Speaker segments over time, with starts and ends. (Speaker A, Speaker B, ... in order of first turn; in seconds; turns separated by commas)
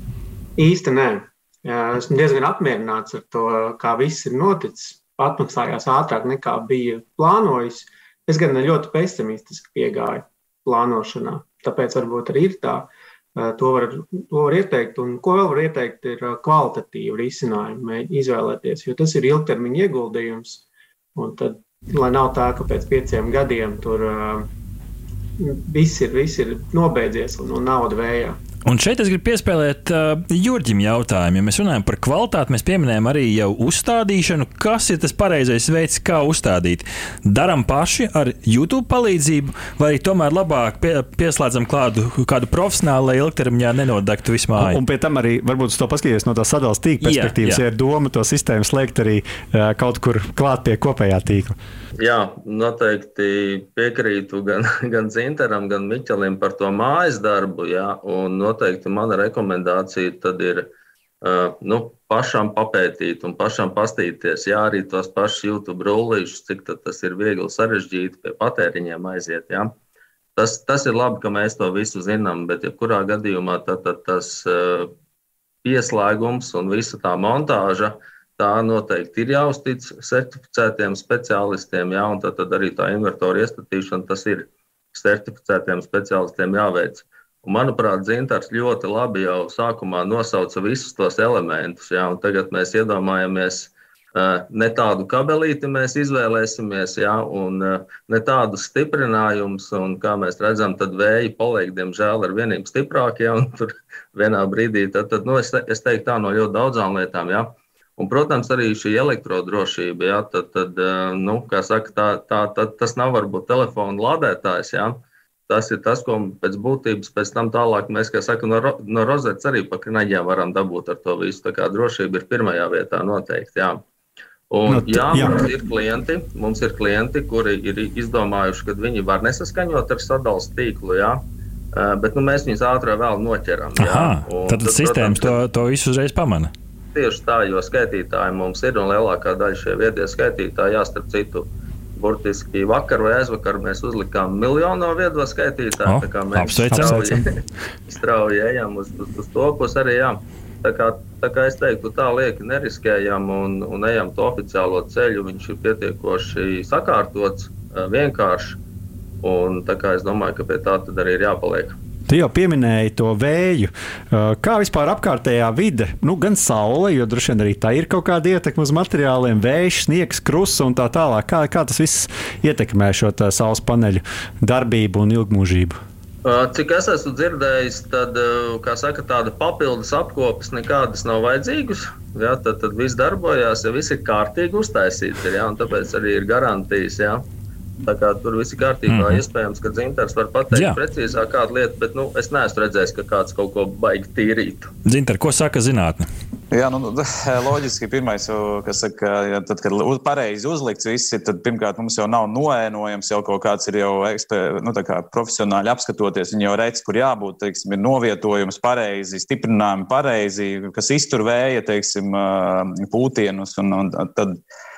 Speaker A: 0.6-24.5, Speaker A: 25.4-28.4, Speaker B: 28.6-44.8, Speaker C: 44.5-51.6, Speaker B: 47.0-47.6, Speaker D: 52.0-60.7, Speaker D: 61.2-69.7, Speaker D: 70.3-74.9, Speaker D: 75.6-123.8, Speaker D: 124.5-131.2, Speaker C: 124.7-125.4, Speaker D: 131.7-135.4, Speaker B: 133.8-136.5, Speaker D: 136.9-147.3, Speaker B: 145.8-147.2, Speaker D: 147.9-158.6, Speaker D: 159.2-161.8, Speaker C: 162.1-175.8, Speaker D: 176.2-187.2, Speaker D: 187.8-194.7, Speaker B: 188.9-189.2, Speaker B: 194.8-196.1, Speaker E: 196.5-214.4